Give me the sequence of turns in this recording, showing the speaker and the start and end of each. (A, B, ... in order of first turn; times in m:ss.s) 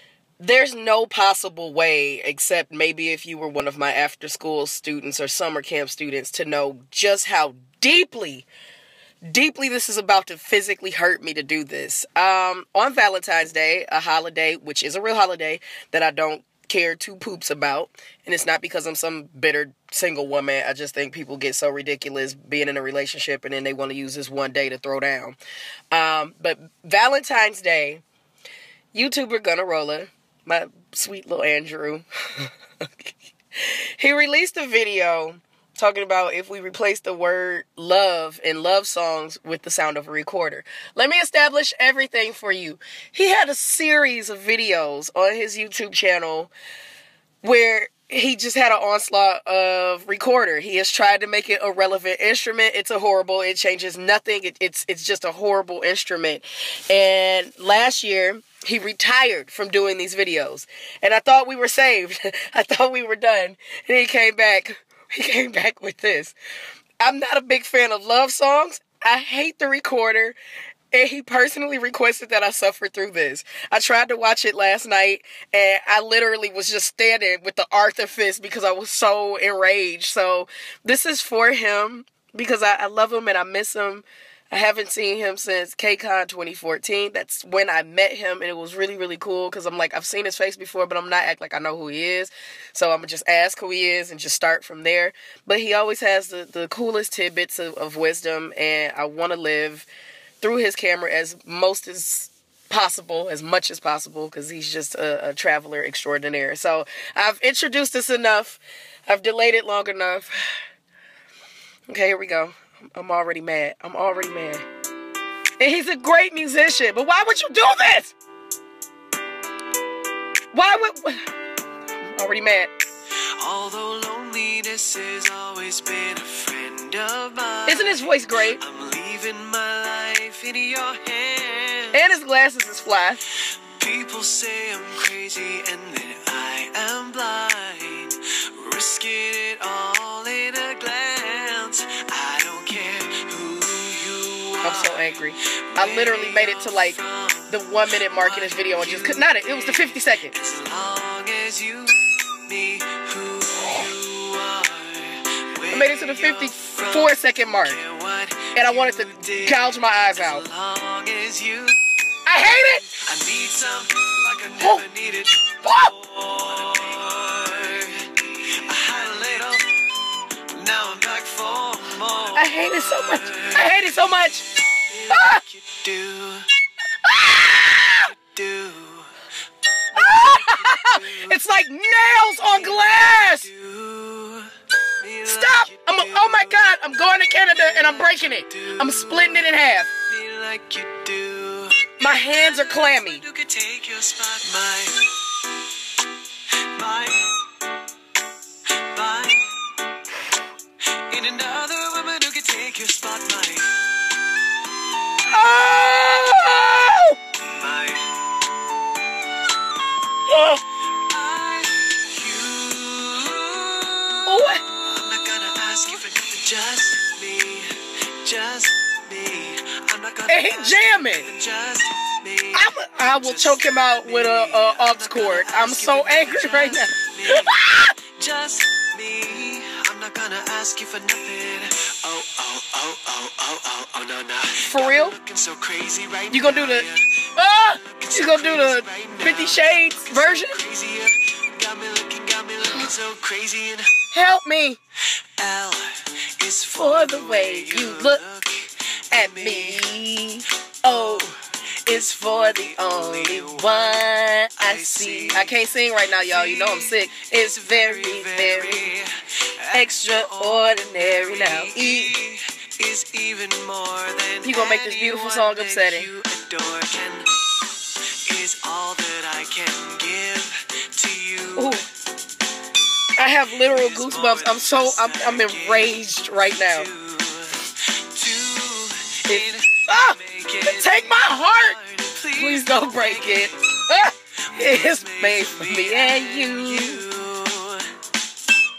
0:00.4-0:08.5 A
0:09.3-0:25.4 A
0:25.9-0:28.0 A
0:28.9-0:46.5 A
0:47.4-1:06.3 A
1:07.0-1:10.4 A
1:10.9-1:39.9 A
1:40.4-1:50.3 A
1:51.9-1:54.6 A
1:55.6-1:58.1 A
2:00.5-2:01.3 A
2:02.1-2:02.7 A
2:03.4-2:12.0 B
2:07.7-2:08.6 A
2:11.9-2:13.2 A
2:13.8-2:25.2 B
2:24.6-2:27.0 A
2:25.7-2:41.8 B
2:27.5-2:30.3 A
2:35.7-2:37.8 A
2:38.5-2:40.4 A
2:42.2-2:43.0 A
2:43.0-2:49.8 B
2:44.6-2:44.8 A
2:45.6-2:45.9 A
2:50.5-2:53.9 B
2:52.3-2:54.4 A
2:54.7-2:56.5 B
2:55.1-2:55.4 A
2:57.0-2:58.1 A
2:58.0-2:59.1 B
2:59.9-3:01.4 B
2:59.9-3:03.5 A
3:02.3-3:06.9 B
3:05.2-3:09.9 A
3:07.5-3:09.5 B
3:10.1-3:15.1 B
3:12.0-3:13.2 A
3:16.6-3:17.4 B
3:18.7-3:19.5 B
3:20.9-3:23.8 B
3:25.3-3:27.2 A
3:27.4-3:28.2 B
3:30.3-3:30.6 A
3:30.9-3:57.2 B
3:34.2-3:34.6 A
3:40.3-3:41.3 A
3:42.5-3:47.9 A
3:54.6-3:55.2 A
3:56.3-4:00.6 A
3:57.8-4:03.9 B
4:04.1-4:04.8 A
4:05.2-4:09.9 B
4:06.8-4:08.2 A
4:09.1-4:18.9 A
4:10.8-4:27.3 B
4:19.7-4:22.2 A
4:24.4-4:26.1 A
4:28.2-4:31.8 B
4:31.6-4:31.8 A
4:33.2-4:36.9 A
4:33.6-4:43.6 B
4:39.3-4:41.8 A
4:42.3-4:47.0 A
4:44.5-4:47.9 B